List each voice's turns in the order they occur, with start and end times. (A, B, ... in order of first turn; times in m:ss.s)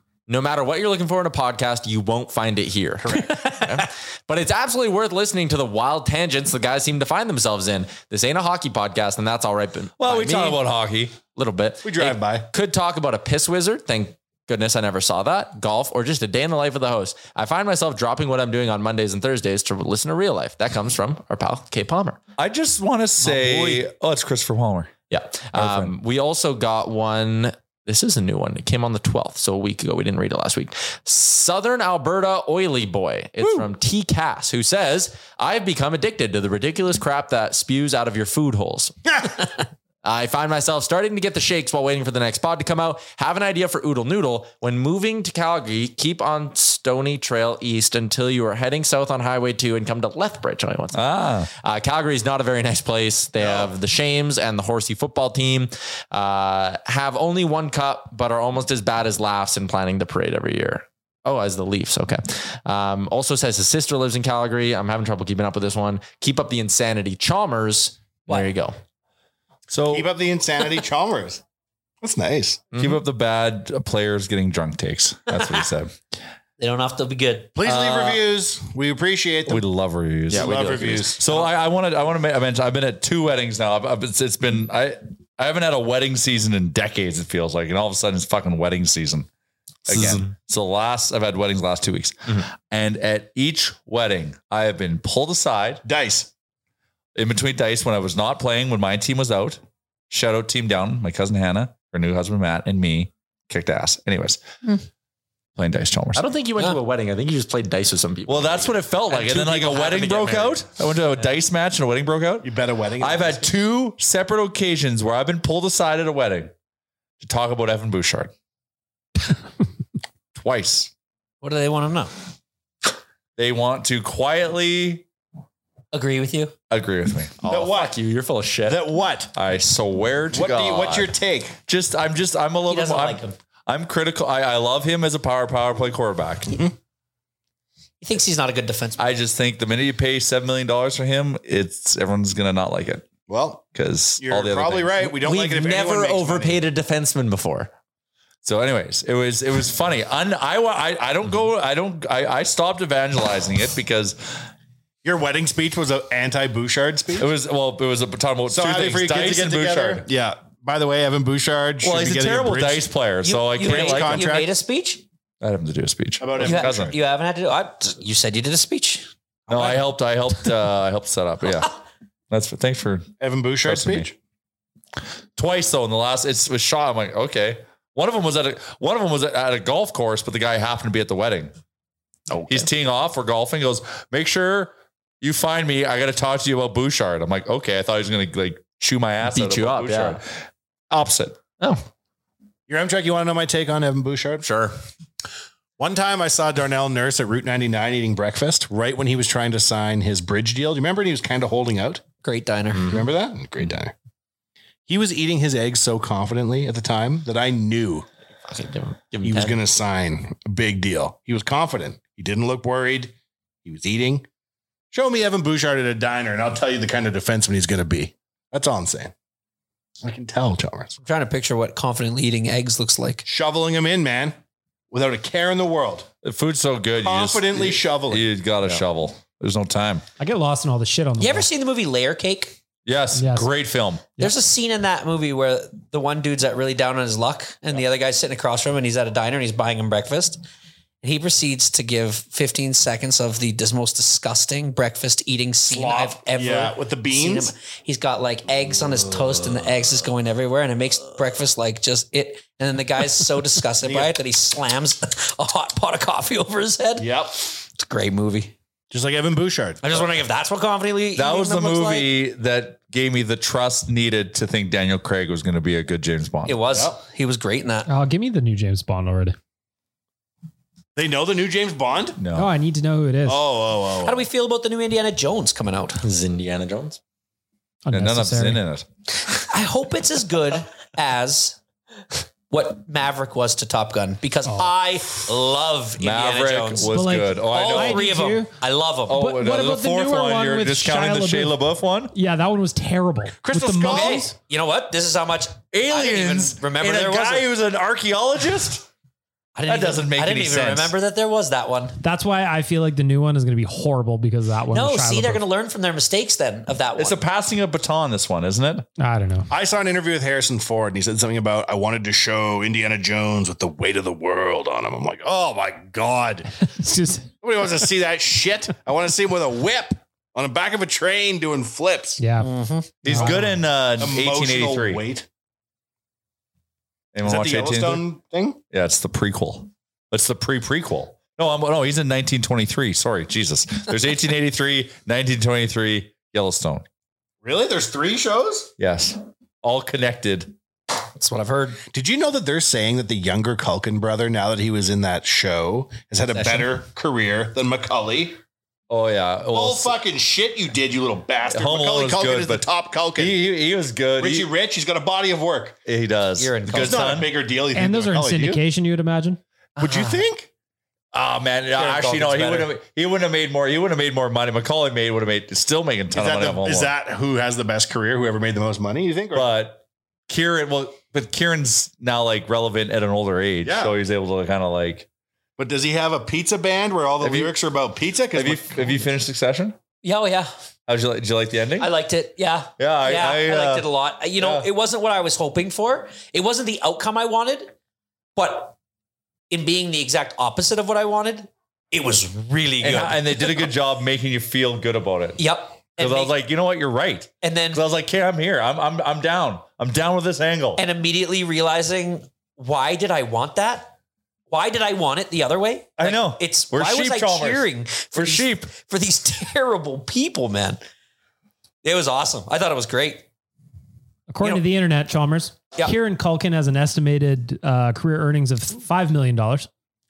0:00.3-0:10.6 A
0:10.0-0:11.2 B
0:11.3-0:22.2 A
0:11.8-0:12.5 C
0:22.4-0:24.9 B
0:25.1-0:39.0 A
0:25.5-0:25.9 B
0:40.0-1:08.8 A
0:51.0-0:51.5 B
0:53.4-0:53.7 C
1:09.7-1:10.1 B
1:09.9-1:11.4 C
1:12.0-1:12.6 C
1:12.7-1:13.0 A
1:12.8-1:15.9 B
1:16.6-1:17.6 D
1:17.6-1:19.7 C
1:17.7-1:18.0 B
1:19.5-1:29.3 B
1:20.3-1:21.5 C
1:20.3-1:21.2 A
1:29.9-1:35.8 B
1:35.8-1:36.3 C
1:37.2-1:39.6 B
1:40.1-1:44.4 B
1:45.6-1:46.2 B
1:46.1-1:50.6 A
1:48.3-1:56.5 B
1:52.4-1:53.5 C
1:57.2-1:58.3 B
2:00.4-2:00.9 B
2:01.4-2:02.1 D
2:03.4-2:05.0 B
2:05.9-2:06.5 D
2:06.7-2:07.4 B
2:07.4-2:08.8 A
2:07.5-2:07.9 C
2:08.6-2:09.3 C
2:09.4-2:11.1 B
2:10.3-2:11.6 C
2:11.7-2:16.6 B
2:12.7-2:13.4 D
2:18.0-2:19.0 D
2:19.0-2:23.1 B
2:23.3-2:23.6 C
2:23.8-2:25.1 B
2:24.2-2:26.6 C
2:25.2-2:27.7 A
2:28.4-2:34.2 B
2:35.0-2:37.3 C
2:37.2-2:40.1 B
2:38.5-2:42.9 C
2:41.8-2:44.4 B
2:43.2-2:45.0 D
2:43.6-2:44.5 C
2:45.4-2:47.0 B
2:46.2-2:47.0 C
2:46.4-2:49.1 D
2:49.5-2:49.8 C
2:49.5-2:51.7 B
2:52.3-2:53.1 B
2:53.2-2:54.1 C
2:53.6-2:54.1 B
2:55.4-3:01.5 B
3:02.3-3:02.7 A
3:02.5-3:10.2 B
3:09.2-3:10.2 A
3:10.9-3:11.4 B
3:12.7-3:14.4 C
3:14.4-3:14.8 A
3:15.8-3:22.0 C
3:22.2-3:23.0 D
3:22.9-3:23.9 C
3:24.9-3:28.1 C
3:28.5-3:29.6 A
3:29.2-3:33.1 C
3:33.6-3:34.3 C
3:34.9-3:39.1 C
3:40.0-3:41.0 C
3:41.0-3:43.2 D
3:43.2-3:44.4 C
3:44.9-3:46.1 C
3:46.2-3:50.0 B
3:47.0-3:48.8 C
3:50.2-3:51.5 E
3:51.2-3:52.6 D
3:52.9-3:54.1 B
3:53.1-3:53.5 E
3:54.2-4:00.4 D
4:01.0-4:18.5 D
4:05.7-4:07.5 C
4:13.8-4:14.2 C
4:17.0-4:17.4 C
4:18.9-4:20.1 C
4:19.8-4:22.1 D
4:21.2-4:26.6 B
4:26.5-4:27.9 D
4:26.7-4:27.0 C
4:27.9-4:29.4 E
4:31.0-4:32.2 C
4:32.2-4:32.5 B
4:32.3-4:33.4 E
4:33.3-4:34.3 C
4:34.0-4:36.0 D
4:36.0-4:37.0 A
4:37.8-4:38.6 E
4:37.9-4:38.8 B
4:39.3-4:41.6 D
4:42.5-4:46.9 D
4:44.5-4:44.7 E
4:46.0-4:48.1 B
4:46.9-4:48.6 E
4:47.4-4:49.2 D
4:49.1-4:52.1 B
4:49.1-4:51.6 E
4:52.1-4:54.4 E
4:53.4-4:54.3 C
4:53.9-4:57.5 D
4:55.7-4:58.9 B
4:59.6-5:02.0 D
4:59.7-5:01.0 B
5:02.0-5:05.4 E
5:04.7-5:07.2 D
5:07.0-5:08.9 B
5:09.0-5:09.5 E
5:09.5-5:16.5 C
5:16.8-5:17.3 E
5:17.4-5:22.2 C
5:22.2-5:22.5 E
5:22.4-5:23.3 D
5:23.0-5:25.0 B
5:23.0-5:23.6 E
5:24.0-5:25.3 C
5:27.1-5:28.0 B
5:27.2-5:28.6 C
5:28.7-5:36.9 B
5:37.4-5:38.7 C
5:38.8-5:40.5 B
5:41.2-5:41.8 D
5:41.9-5:48.4 C
5:46.3-5:46.8 D
5:48.9-5:50.0 B
5:49.5-5:53.5 C
5:51.5-5:52.6 B
5:53.2-5:54.5 B
5:54.2-5:55.8 C
5:55.9-5:57.3 B
5:56.4-5:57.2 D
5:56.7-5:58.6 C
5:57.7-5:59.4 E
5:59.8-6:00.5 C
6:01.1-6:06.9 B
6:01.7-6:02.7 D
6:06.1-6:09.5 C
6:09.3-6:15.1 B
6:13.6-6:14.0 C
6:15.6-6:19.0 C
6:17.2-6:17.5 B
6:18.3-6:19.8 B
6:20.0-6:20.5 D
6:20.9-6:21.9 B
6:21.8-6:27.7 D
6:22.8-6:24.7 B
6:28.4-6:28.8 D
6:29.5-6:33.7 D
6:32.8-6:35.4 B
6:35.4-6:36.4 D
6:36.0-6:40.8 B
6:37.4-6:37.8 D
6:40.8-6:43.9 D
6:44.5-6:50.8 D
6:46.0-6:48.7 B
6:51.8-6:53.2 D
6:54.3-6:59.7 E